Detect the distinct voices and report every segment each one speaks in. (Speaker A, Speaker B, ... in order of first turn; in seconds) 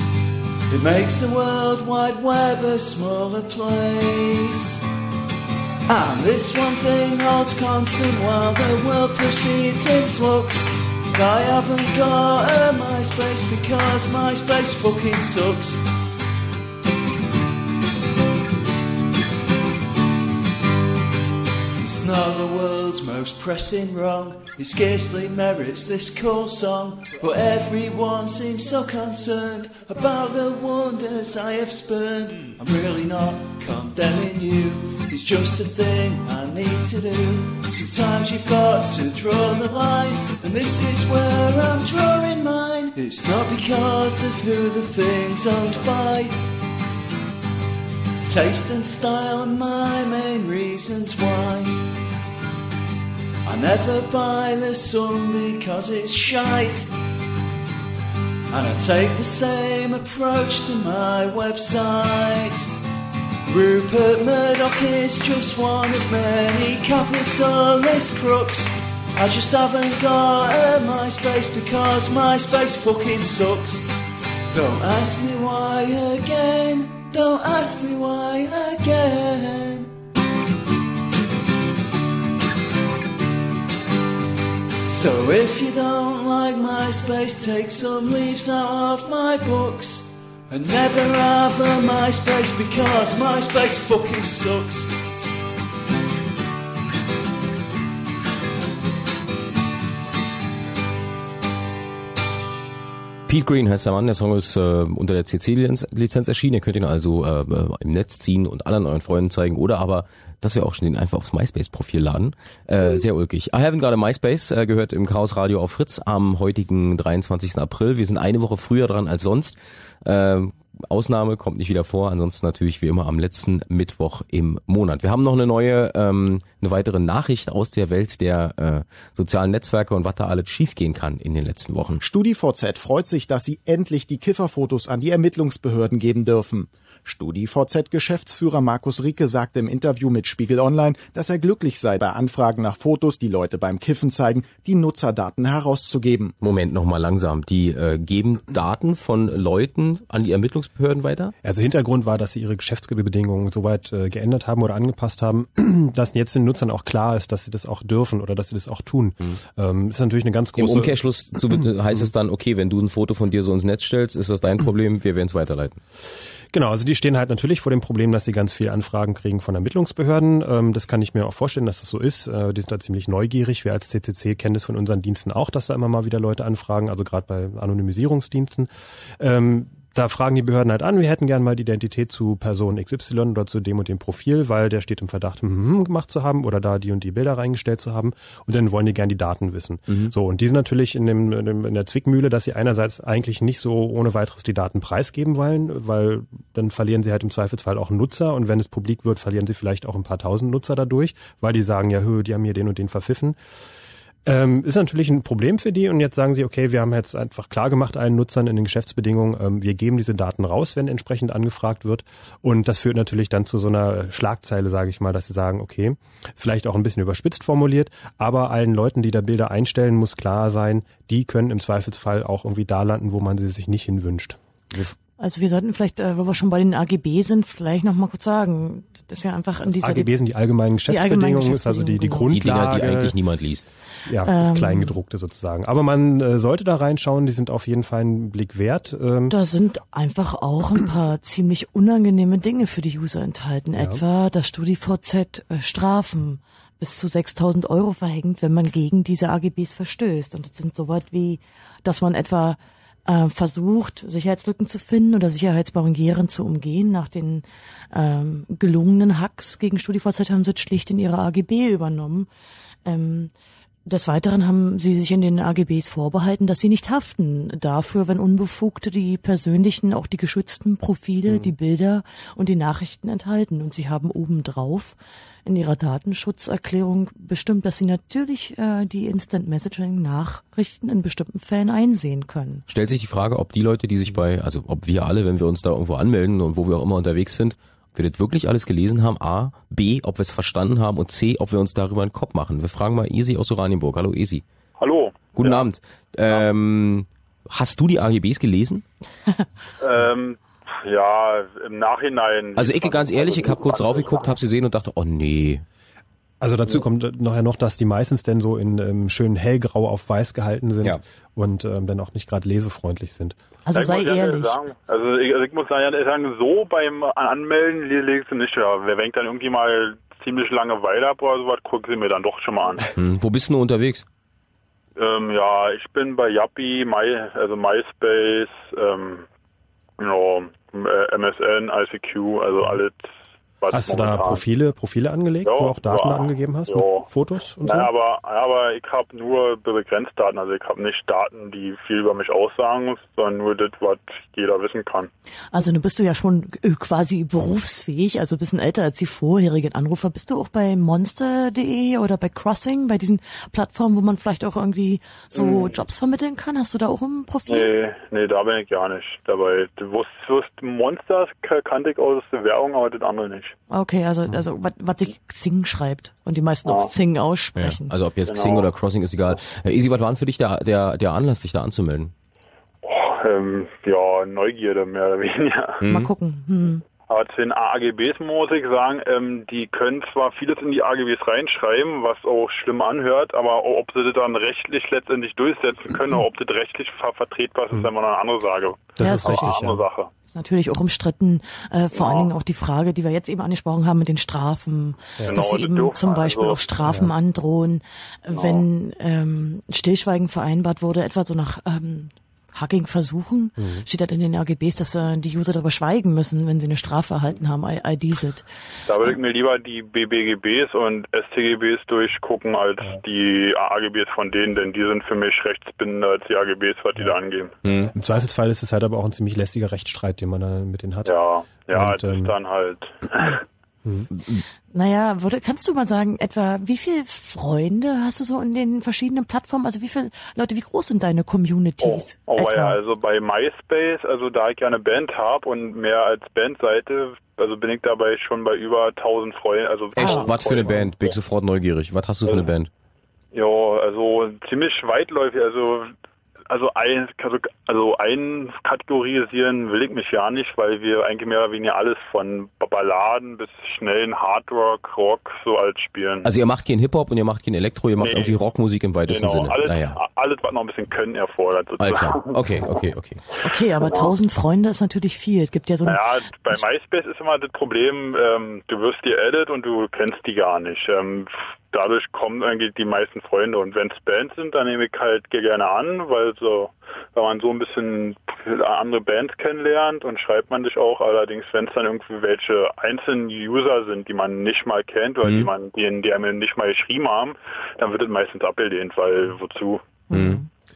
Speaker A: 0.7-4.8, 5.9-15.9, 21.8-46.4, 48.2-51.9, 53.4-56.9, 58.5-62.7, 63.5-73.9, 74.5-79.9, 84.9-94.9
Speaker B: 103.3-132.0, 146.4-151.3, 160.6-165.8, 189.9-190.1, 232.3-233.7, 282.7-294.4, 295.4-298.8, 302.6-305.6, 322.9-324.0, 367.6-372.1, 375.8-376.1, 417.6-417.9, 439.9-442.7, 456.2-460.0, 461.8-463.2, 485.2-485.5, 490.1-490.4
Speaker C: 132.0-146.3
Speaker D: 151.4-160.9, 161.5-162.1, 166.5-178.7, 179.2-203.3, 204.2-224.4, 229.7-233.2, 234.1-239.3, 243.8-244.0, 271.3-271.5, 306.4-313.4, 333.7-337.9, 389.0-389.8, 396.8-397.1, 403.6-403.8, 417.9-421.1, 421.7-422.3
Speaker E: 225.2-230.1, 230.9-232.3, 234.2-234.9, 239.3-262.3, 262.8-263.3, 263.9-282.6, 313.6-314.6, 345.5-357.7, 363.7-367.9, 375.9-376.8, 389.0-389.6, 390.3-408.4, 424.7-432.8, 440.0-440.3, 463.4-466.0, 490.1-490.4
Speaker F: 294.8-295.6, 299.8-304.4, 313.7-322.9, 325.0-329.2, 330.0-334.4, 335.4-337.1, 337.6-345.1, 355.4-355.8, 357.5-363.5, 368.3-368.7, 372.8-375.8, 377.1-390.1, 391.9-392.3, 395.2-396.7, 398.3-398.6, 408.9-417.5, 421.0-423.4, 431.8-441.1, 443.3-445.9, 446.5-456.3, 458.0-458.4, 459.1-462.4, 465.8-489.9